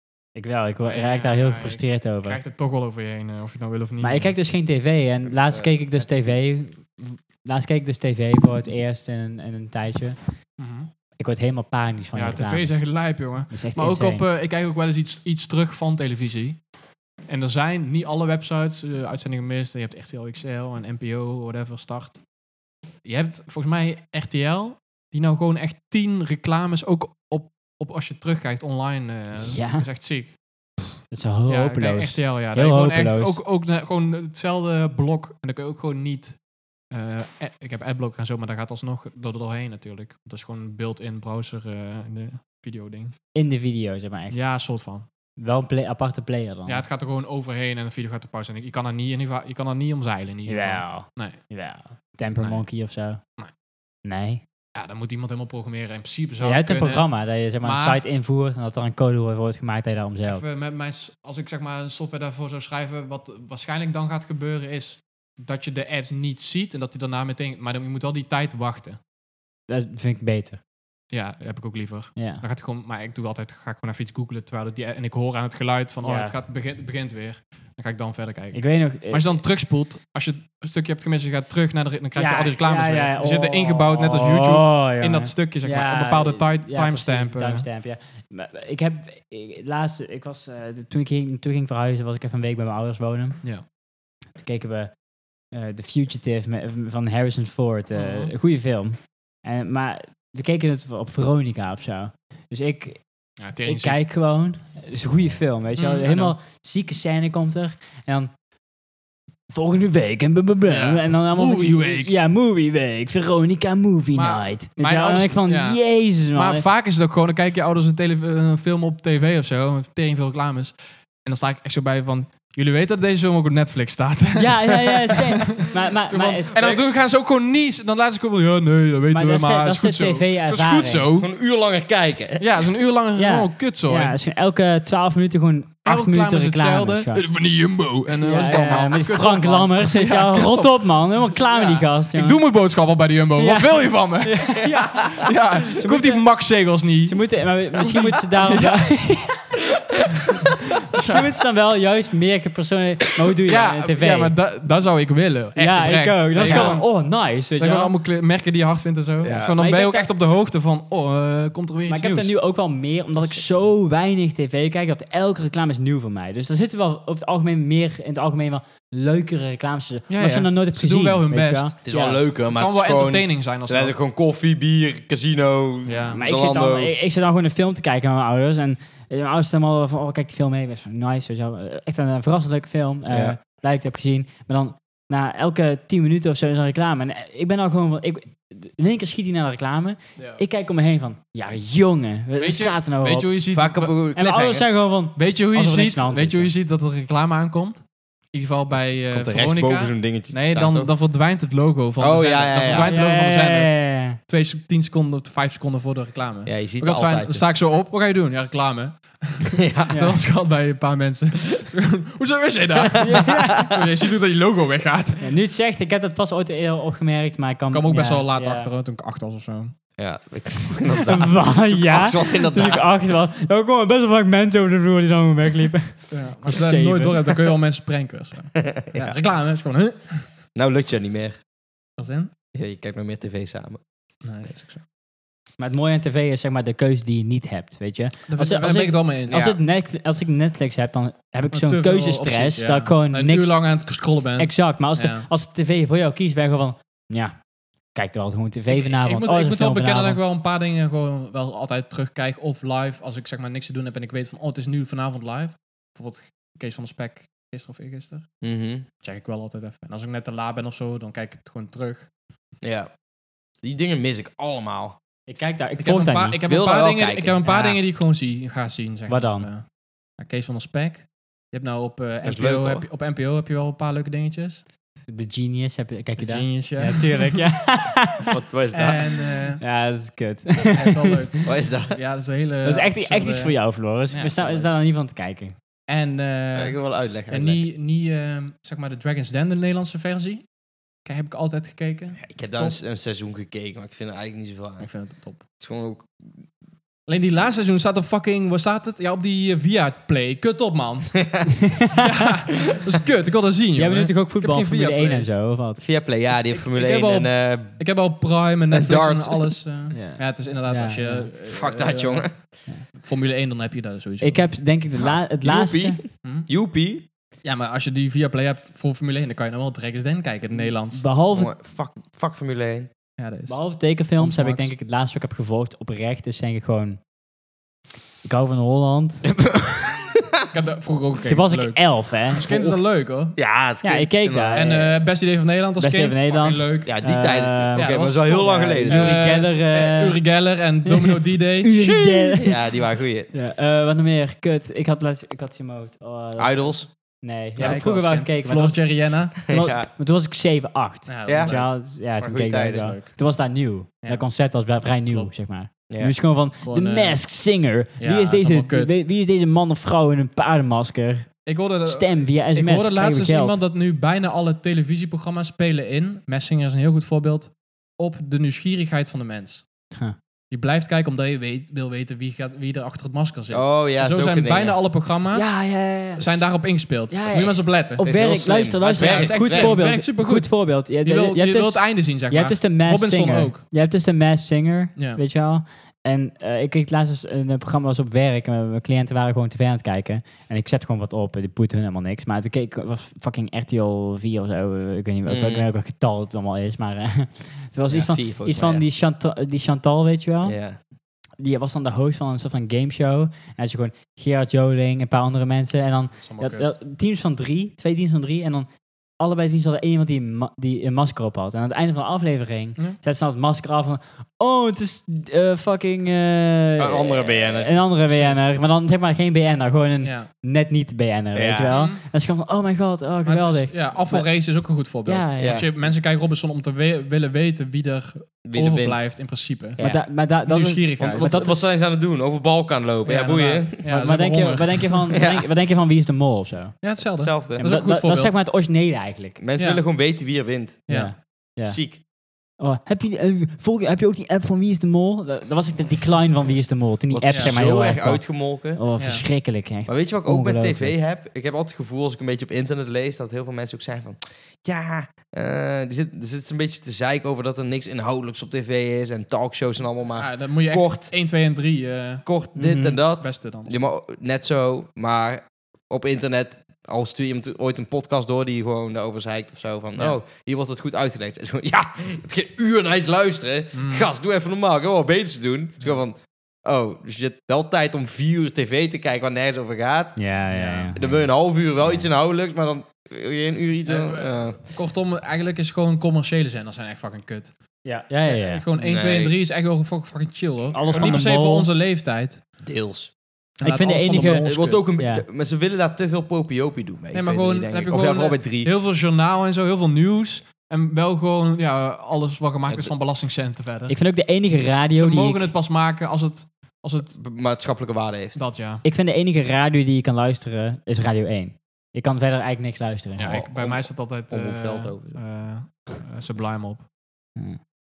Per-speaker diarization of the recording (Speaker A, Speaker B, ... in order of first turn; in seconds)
Speaker A: 0.3-2.4, 4.0-10.2, 11.2-13.0, 13.5-14.2, 29.4-29.9, 31.1-33.4, 43.3-44.4, 45.4-46.9, 50.5-53.2, 54.0-54.4, 56.4-60.4, 69.7-70.6, 72.2-72.4, 76.0-76.3, 78.5-79.4, 82.2-93.4, 94.3-94.9, 95.5-108.3, 109.5-116.6, 124.3-126.5, 129.1-131.1, 133.2-137.2, 138.2-142.4, 143.4-146.2, 147.1-149.5, 150.9-154.3, 155.6-157.9, 159.5-160.1, 161.9-172.2, 176.1-193.3, 194.1-196.5, 202.7-204.2, 209.9-210.2, 213.0-213.7, 215.2-218.7, 221.0-227.4, 235.6-243.6, 244.4-247.3, 247.9-250.2, 265.3-266.4, 267.4-267.8, 269.1-269.5, 275.1-278.3, 279.6-281.2, 282.6-285.5, 303.8-305.8, 309.9-311.3, 314.2-316.0, 320.9-321.5, 323.5-327.0, 328.2-329.3, 331.3-332.7, 333.8-335.0, 335.8-340.2, 340.9-342.8, 343.3-363.6, 369.9-370.2, 375.3-376.5, 377.1-400.6, 401.4-424.3, 425.0-425.7, 429.8-431.7, 433.8-436.8, 437.6-439.4, 440.9-442.0, 442.6-450.9, 462.5-463.0, 480.1-481.3, 487.8-488.6, 490.7-491.7, 493.6-495.2, 503.9-505.5, 508.8-513.4
Speaker B: 0.8-4.4, 10.6-10.9, 12.1-16.6, 17.3-22.2, 23.0-30.4, 31.5-36.4, 36.9-43.1, 44.3-45.0, 46.6-51.4, 52.4-52.6, 54.7-58.0, 60.2-69.0, 71.1-87.7, 97.9-98.3, 103.4-104.0, 105.8-106.3, 110.7-112.1, 114.1-131.3, 132.4-134.2, 135.8-149.0, 153.4-162.3, 170.1-173.9, 175.8-176.2, 190.2-190.4, 192.4-194.1, 195.0-215.3, 217.7-219.7, 226.1-230.3, 232.0-232.3, 234.2-234.8, 238.3-239.5, 241.5-245.3, 248.7-258.3, 259.0-262.1, 265.8-274.6, 276.2-277.4, 278.7-279.6, 280.7-284.7, 285.9-290.5, 291.0-292.8, 294.8-295.4, 297.1-305.3, 306.5-314.5, 317.4-321.0, 323.2-323.6, 324.1-324.7, 330.5-333.4, 334.5-336.9, 337.7-341.7, 347.6-349.4, 351.1-351.7, 355.0-355.3, 356.6-357.3, 358.0-358.9, 361.4-369.7, 370.5-378.0, 378.8-383.6, 384.9-385.2, 406.2-406.7, 418.1-418.4, 420.0-420.3, 421.7-422.0, 423.2-431.5, 433.0-435.1, 436.8-438.4, 439.6-439.8, 440.9-441.2, 447.3-447.6, 449.0-449.2, 460.2-462.2, 463.1-463.7, 473.7-474.1, 480.5-481.0, 483.8-487.5, 488.2-492.4, 493.6-494.9, 497.1-504.0, 504.9-507.2, 508.3-508.8, 513.2-516.8
Speaker C: 126.5-126.8, 131.2-132.5, 156.4-156.8, 159.2-159.5, 171.8-176.9, 183.1-183.4, 193.5-194.6, 199.1-200.9, 202.0-202.9, 206.4-207.4, 209.6-209.9, 213.1-213.5, 220.0-223.1, 228.7-229.2, 230.5-231.4, 232.5-233.8, 239.3-239.6, 258.4-258.9, 262.6-262.9, 263.6-265.0, 266.5-267.4, 272.2-272.9, 278.2-279.2, 281.4-282.0, 286.5-287.6, 292.2-296.4, 301.2-301.4, 305.8-307.8, 308.7-309.6, 311.5-312.4, 314.9-317.1, 321.3-322.9, 329.4-330.4, 332.4-332.7, 333.3-334.7, 336.8-339.4, 341.8-343.3, 346.4-346.9, 349.5-349.9, 351.2-351.6, 352.2-353.0, 355.9-356.1, 373.5-374.8, 377.3-379.8, 395.2-395.7, 397.9-398.8, 400.4-400.8, 416.8-417.9, 421.3-421.8, 425.4-425.7, 428.4-429.2, 429.7-430.1, 431.0-433.8, 435.1-435.5, 437.1-437.6, 439.4-442.0, 447.1-448.9, 449.9-461.1, 462.2-480.2, 480.9-484.6, 488.8-489.3, 490.9-491.3, 492.6-493.1, 494.1-498.7, 502.7-502.9, 507.1-508.4, 513.2-515.2